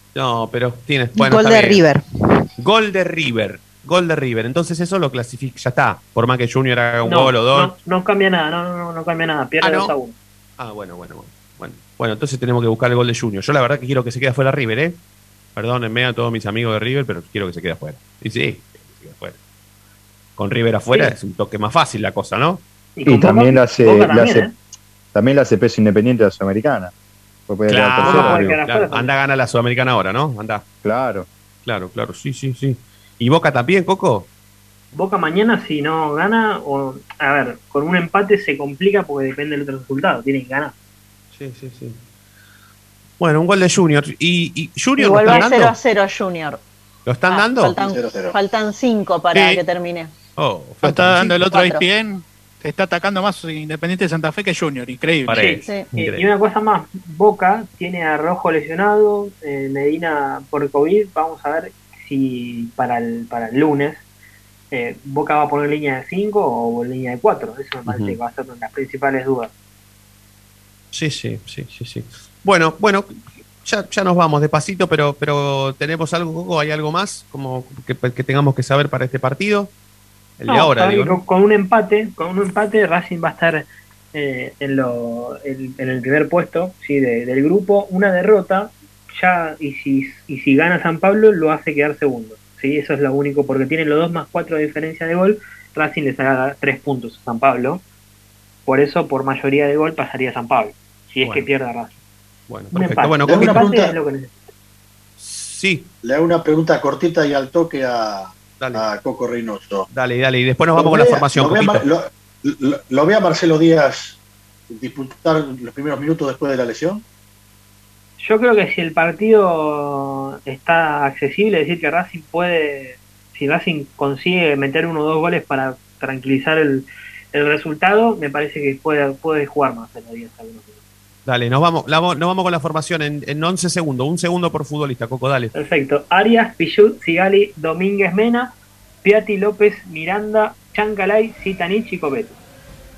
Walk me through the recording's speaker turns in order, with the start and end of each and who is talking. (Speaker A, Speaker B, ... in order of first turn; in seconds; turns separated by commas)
Speaker A: 0.1-1.8, Speaker B: 1.1-2.4, Speaker A: 2.6-7.7, Speaker C: 7.0-10.1, Speaker A: 9.6-9.9, Speaker A: 10.6-15.0, Speaker A: 15.5-19.4, Speaker A: 20.4-22.6, Speaker C: 22.9-24.5, Speaker D: 23.1-24.5, Speaker D: 25.1-26.9, Speaker D: 27.5-28.6, Speaker A: 27.7-30.6, Speaker C: 28.0-29.1, Speaker D: 30.8-31.3, Speaker A: 31.6-34.3, Speaker C: 34.9-40.7, Speaker A: 41.3-42.0, Speaker A: 43.2-45.8, Speaker B: 45.0-46.6, Speaker A: 47.0-47.8, Speaker B: 47.3-50.1, Speaker E: 47.8-48.4, Speaker F: 49.3-49.6, Speaker A: 50.4-51.3, Speaker F: 50.8-55.5, Speaker B: 51.3-51.8, Speaker A: 55.2-56.3, Speaker C: 55.3-64.0, Speaker B: 55.6-55.9, Speaker C: 64.7-69.5, Speaker A: 67.9-68.2, Speaker A: 70.9-79.7, Speaker A: 80.4-81.2, Speaker C: 80.5-97.8, Speaker C: 98.7-101.9, Speaker A: 102.5-103.6, Speaker C: 102.7-104.5, Speaker E: 103.3-104.0, Speaker A: 105.2-105.9, Speaker E: 106.0-109.9, Speaker A: 108.6-108.8, Speaker A: 109.9-111.9, Speaker E: 110.7-117.0, Speaker C: 118.2-130.8, Speaker A: 131.2-135.5, Speaker C: 135.5-142.4